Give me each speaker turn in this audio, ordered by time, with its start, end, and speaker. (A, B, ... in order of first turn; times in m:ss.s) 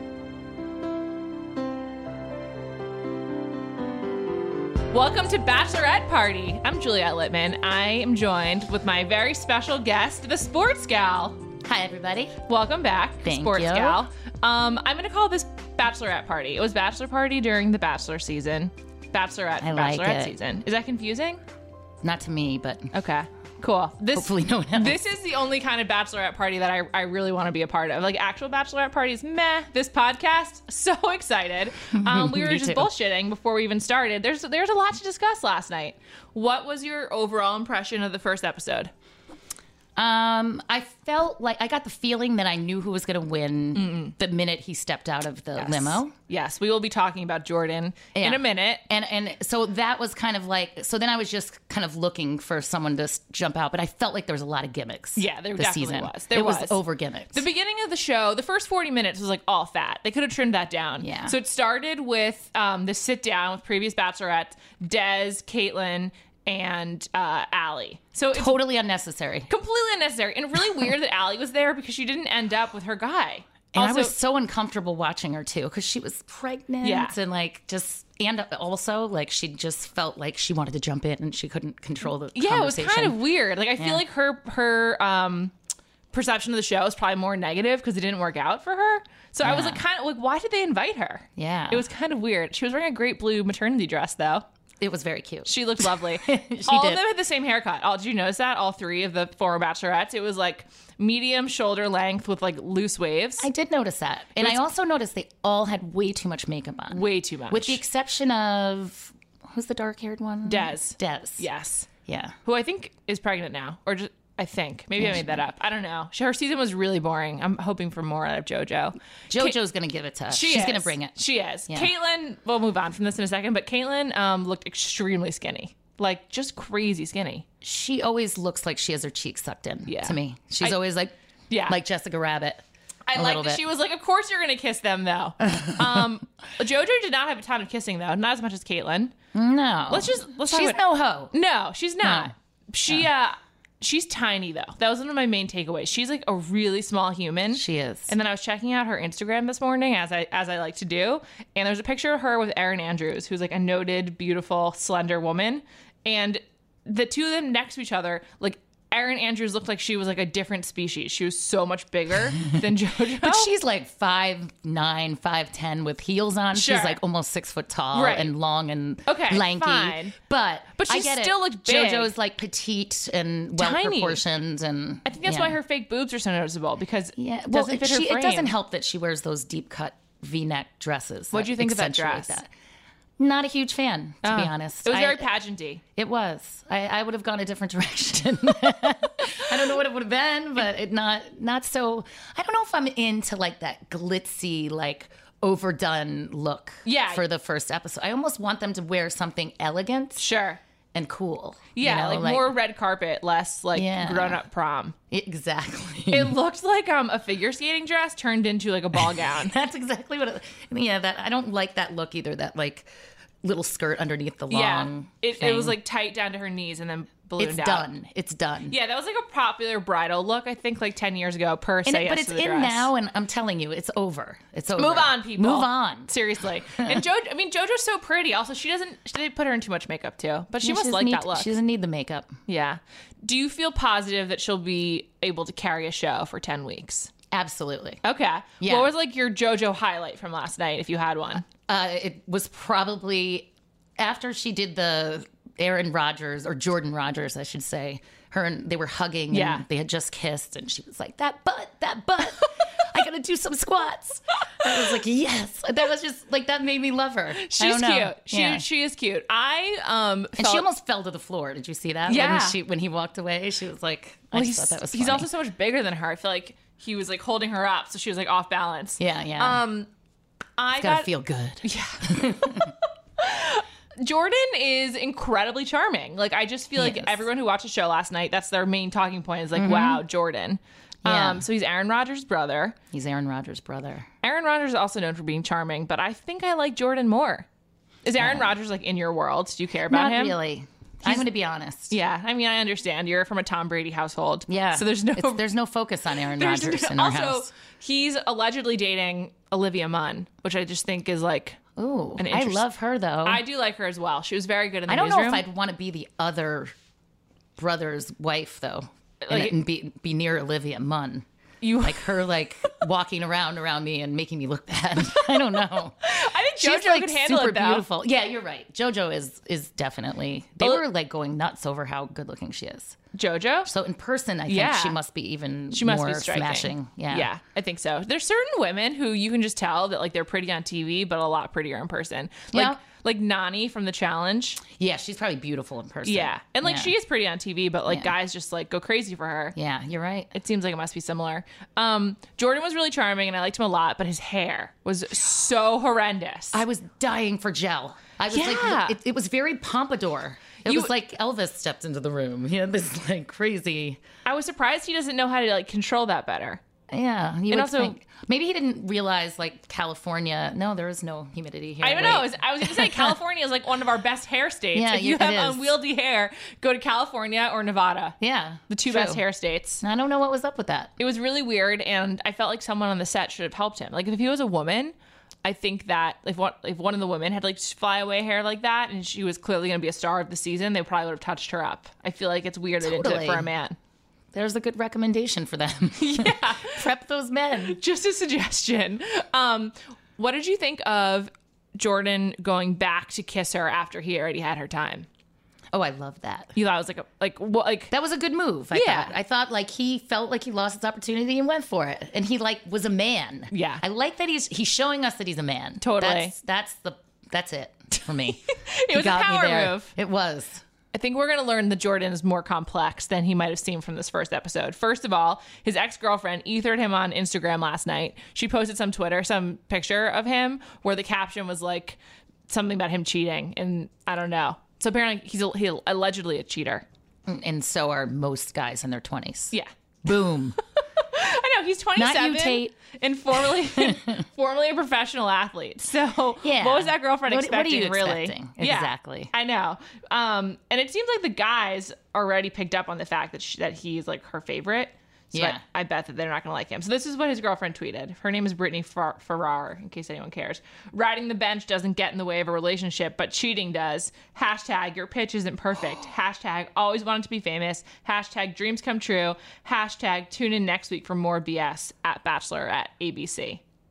0:04.9-0:11.4 A
0:11.6-0:12.3 B
0:12.4-0:21.4 A
0:13.2-0:14.0 B
0:19.6-0:20.3 B
0:22.0-0:22.9 B
0:22.9-0:38.9 A
0:24.1-0:25.0 B
0:31.9-0:32.9 B
0:40.0-0:46.1 B
0:43.7-0:44.1 A
0:45.6-0:48.8 A
0:48.1-0:57.4 B
0:55.1-0:56.8 A
0:57.3-1:08.6 A
1:01.0-1:01.3 B
1:08.3-1:09.5 B
1:09.5-1:14.1 A
1:13.7-1:23.2 B
1:16.8-1:17.2 A
1:22.3-1:25.5 A
1:23.8-1:24.0 B
1:26.1-1:34.4 A
1:29.4-1:29.8 B
1:31.4-1:31.8 B
1:34.8-1:37.0 B
1:35.4-1:43.5 A
1:43.4-1:51.4 B
1:46.9-1:47.8 A
1:50.4-1:51.9 A
1:52.0-1:52.4 B
1:52.4-1:59.5 A
1:55.0-1:55.4 B
1:59.3-2:01.2 B
2:00.3-2:07.4 A
2:07.6-2:11.1 B
2:09.8-2:10.8 A
2:11.5-2:11.8 A
2:11.7-2:13.6 B
2:13.1-2:19.2 A
2:19.3-2:21.3 B
2:19.9-2:20.8 A
2:21.3-2:43.5 A
2:22.0-2:22.3 B
2:27.5-2:28.1 B
2:43.2-2:55.6 B
2:46.5-2:47.0 A
2:47.9-2:48.3 A
2:49.0-2:50.1 A
2:50.7-2:52.1 A
2:53.6-2:54.2 A
2:55.0-2:58.5 A
2:57.2-3:02.5 B
3:01.3-3:02.4 A
3:03.2-3:05.2 B
3:04.2-3:05.8 A
3:06.0-3:20.2 B
3:16.8-3:17.2 A
3:20.2-3:20.6 A
3:20.9-3:22.5 B
3:21.7-3:24.9 A
3:23.7-3:24.4 B
3:25.1-3:26.4 B
3:26.1-3:29.5 A
3:29.2-3:32.9 B
3:33.4-3:35.8 B
3:34.5-3:37.9 A
3:37.4-3:38.8 B
3:38.7-3:42.9 A
3:41.8-3:46.1 B
3:44.8-3:51.5 A
3:46.7-3:47.0 B
3:50.6-3:52.4 B
3:52.5-3:57.1 A
3:57.3-3:58.0 B
3:58.0-4:01.5 A
3:58.6-3:58.9 B
4:01.4-4:18.6 B
4:09.3-4:09.6 A
4:17.3-4:20.6 A
4:20.4-4:25.3 B
4:22.0-4:22.6 A
4:24.3-4:29.9 A
4:29.0-4:29.6 B
4:30.6-4:31.1 A
4:30.7-4:32.7 B
4:31.6-4:42.8 A
4:36.8-4:37.2 B
4:39.5-4:40.0 B
4:41.0-4:41.4 B
4:42.9-4:44.1 B
4:44.2-4:47.5 A
4:48.0-4:50.4 A
4:48.2-4:48.5 B
4:49.9-4:51.9 B
4:51.9-4:55.4 A
4:54.5-4:57.5 B
4:56.3-5:01.6 A
5:01.8-5:03.4 B
5:02.2-5:02.6 A
5:03.2-5:05.4 A
5:04.9-5:06.7 B
5:07.6-5:11.2 B
5:09.2-5:09.5 A
5:11.6-5:12.2 A
5:11.8-5:23.0 B
5:16.0-5:17.8 A
5:23.1-5:23.7 A
5:23.6-5:27.3 B
5:24.5-5:25.0 A
5:25.7-5:34.6 A
5:32.5-5:32.8 B
5:34.7-5:36.9 B
5:36.0-5:39.6 A
5:37.9-5:38.1 B
5:39.6-5:40.3 B
5:40.3-5:46.6 A
5:46.5-5:54.0 B
5:48.3-5:49.0 A
5:50.6-5:50.9 A
5:54.2-5:56.6 A
5:56.9-6:03.2 B
5:57.5-5:58.0 A
6:01.8-6:08.2 A
6:04.7-6:05.7 B
6:08.2-6:09.2 B
6:08.7-6:09.8 A
6:09.8-6:10.9 B
6:11.0-6:14.9 A
6:15.4-6:23.8 A
6:22.8-6:23.5 B
6:24.3-6:27.8 B
6:26.0-6:26.8 A
6:27.6-6:35.1 A
6:35.7-6:36.5 B
6:36.5-6:37.9 A
6:37.9-6:50.6 B
6:38.7-6:39.1 A
6:43.5-6:43.8 A
6:45.8-6:46.3 A
6:48.4-6:49.9 A
6:50.9-7:06.8 A
7:07.3-7:10.6 B
7:11.0-7:43.6 A
7:12.0-7:12.7 B
7:13.4-7:14.2 B
7:16.4-7:19.3 B
7:25.3-7:25.6 B